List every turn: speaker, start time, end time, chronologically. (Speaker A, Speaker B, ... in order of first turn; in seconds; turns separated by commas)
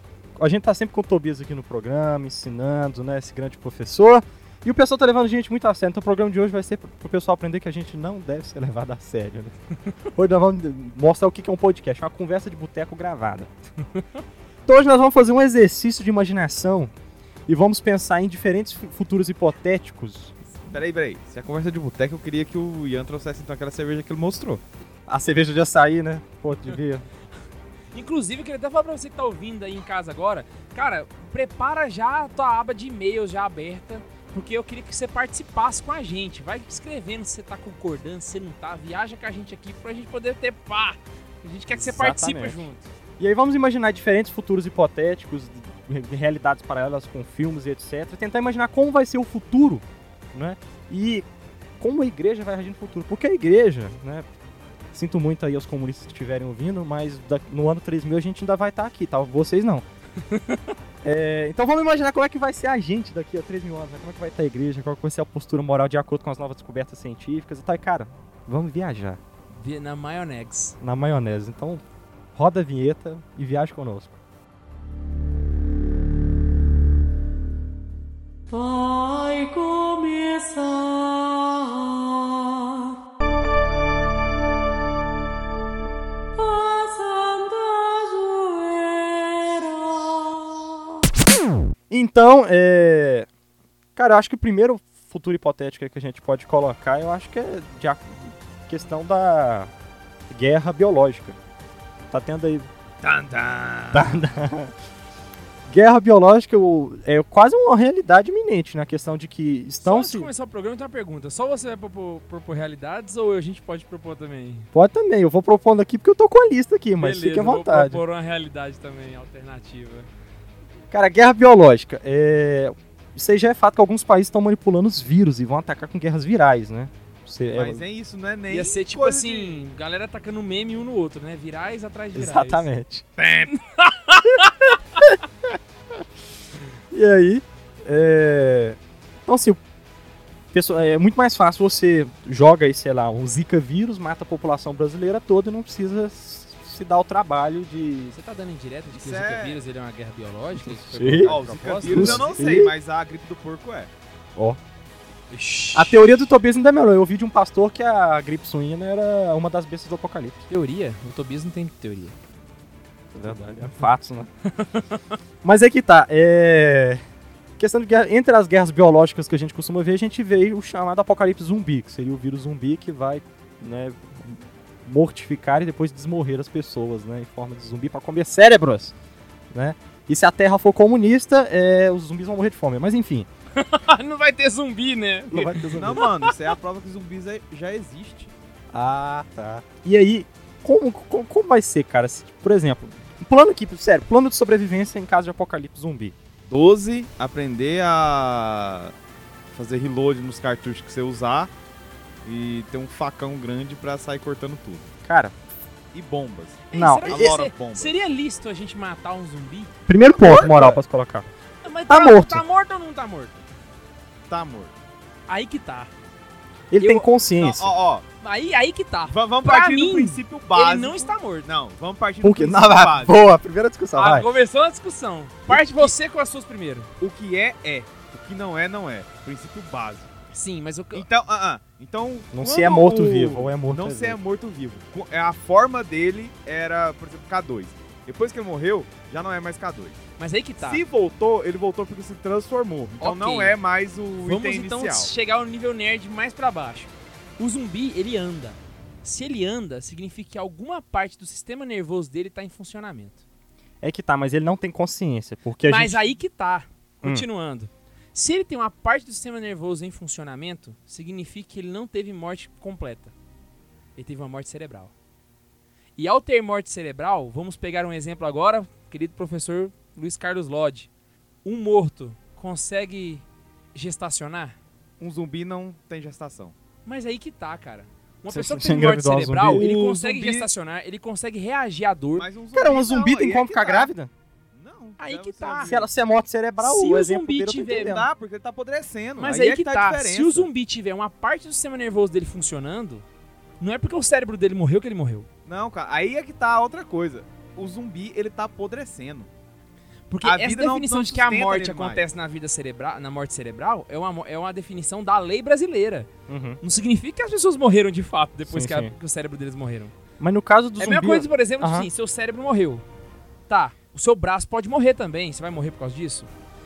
Speaker A: 0.3-9.5, Speaker A: 10.1-13.5, Speaker A: 14.7-16.9, Speaker A: 17.5-20.4, Speaker B: 20.7-24.6, Speaker A: 25.1-27.1, Speaker C: 27.9-42.9, Speaker A: 41.7-42.7, Speaker A: 43.2-51.3, Speaker A: 51.8-54.3, Speaker A: 54.9-59.8, Speaker C: 60.3-60.7, Speaker A: 61.0-69.2, Speaker C: 69.5-70.8, Speaker A: 70.8-74.2, Speaker D: 78.5-83.0, Speaker D: 86.3-90.7, Speaker A: 91.9-93.3, Speaker A: 94.0-99.7, Speaker A: 100.3-101.4, Speaker A: 102.1-102.7, Speaker B: 103.0-104.0, Speaker A: 103.9-104.7, Speaker A: 105.7-110.3, Speaker C: 109.8-114.7, Speaker A: 114.7-118.0, Speaker C: 117.0-120.1, Speaker A: 120.9-127.8, Speaker B: 127.5-129.6, Speaker C: 128.5-132.7, Speaker A: 132.1-133.1, Speaker B: 133.2-133.5, Speaker C: 133.6-134.7, Speaker A: 134.4-135.5, Speaker A: 136.9-139.6, Speaker A: 140.5-148.2, Speaker C: 148.1-152.5, Speaker B: 148.9-149.6, Speaker A: 150.6-152.7, Speaker B: 151.2-153.9, Speaker C: 155.3-156.0, Speaker A: 155.7-160.4, Speaker C: 160.5-162.2, Speaker A: 163.1-164.3, Speaker C: 163.2-163.9, Speaker C: 164.5-165.1, Speaker A: 165.4-167.0, Speaker A: 167.6-178.9, Speaker A: 179.5-183.3, Speaker C: 183.6-186.3, Speaker A: 185.3-186.0, Speaker B: 185.8-188.3, Speaker A: 188.7-196.1, Speaker B: 196.5-198.9, Speaker B: 199.5-201.5, Speaker B: 202.2-204.9, Speaker A: 205.0-205.3, Speaker B: 205.9-207.9, Speaker C: 206.7-209.7, Speaker A: 206.7-207.3, Speaker A: 209.9-211.3, Speaker B: 210.2-210.8, Speaker C: 211.6-213.5, Speaker A: 211.9-212.4, Speaker B: 214.3-214.7, Speaker C: 215.3-215.9, Speaker A: 216.7-217.7, Speaker C: 216.8-217.1, Speaker B: 217.4-218.0, Speaker C: 218.2-221.4, Speaker B: 219.1-223.2, Speaker A: 222.2-224.3, Speaker C: 223.9-226.9, Speaker B: 225.5-225.8, Speaker B: 227.0-230.1, Speaker C: 230.3-231.1, Speaker B: 230.9-240.0, Speaker A: 232.3-234.2, Speaker C: 240.2-240.8, Speaker B: 240.6-245.1, Speaker C: 243.0-243.6, Speaker C: 244.2-253.2, Speaker A: 253.8-256.1, Speaker C: 255.6-263.1, Speaker C: 263.9-264.9, Speaker C: 266.0-270.9, Speaker C: 271.4-274.6, Speaker B: 275.0-276.5, Speaker C: 276.8-282.3, Speaker A: 278.3-279.9, Speaker B: 279.5-280.5, Speaker B: 282.1-283.9, Speaker A: 282.5-284.1, Speaker B: 284.5-285.9, Speaker C: 285.0-285.8, Speaker A: 285.6-288.1, Speaker C: 286.6-287.9, Speaker B: 287.7-290.5, Speaker C: 289.2-293.0, Speaker C: 293.6-295.3, Speaker B: 295.4-299.3, Speaker C: 300.1-306.1, Speaker B: 300.2-302.0, Speaker A: 306.3-306.6, Speaker C: 306.6-309.9, Speaker A: 308.5-308.9, Speaker A: 310.2-311.9, Speaker C: 310.8-312.8, Speaker C: 313.5-316.3